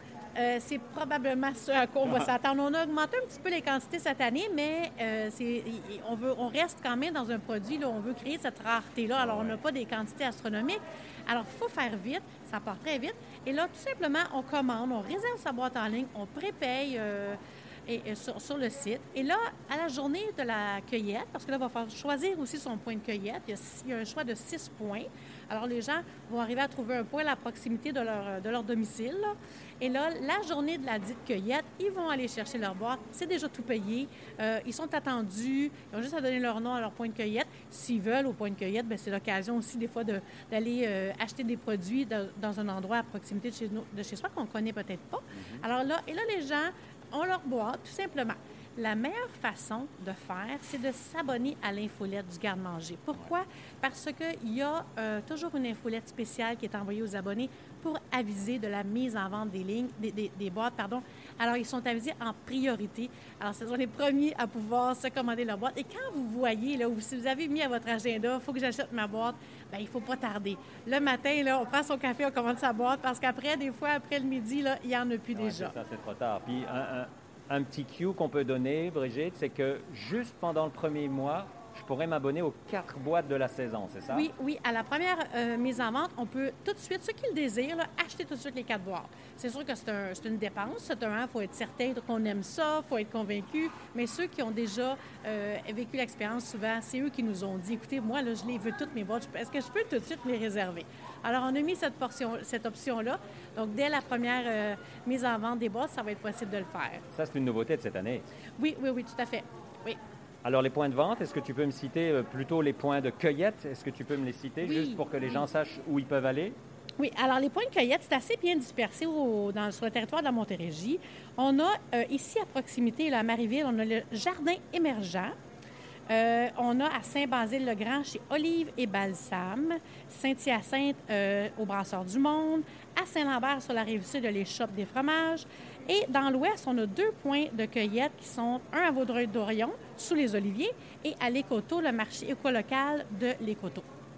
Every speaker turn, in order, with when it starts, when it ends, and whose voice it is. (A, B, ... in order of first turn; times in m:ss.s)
0:00.4-1:15.8 A
0:09.2-0:09.6 B
0:45.3-0:45.7 B
1:15.3-1:24.3 B
1:24.1-1:47.0 A
1:47.1-1:48.3 B
1:48.6-1:50.0 A
1:50.4-1:56.6 B
1:54.6-1:55.4 A
1:57.0-2:05.3 A
2:06.1-2:23.9 A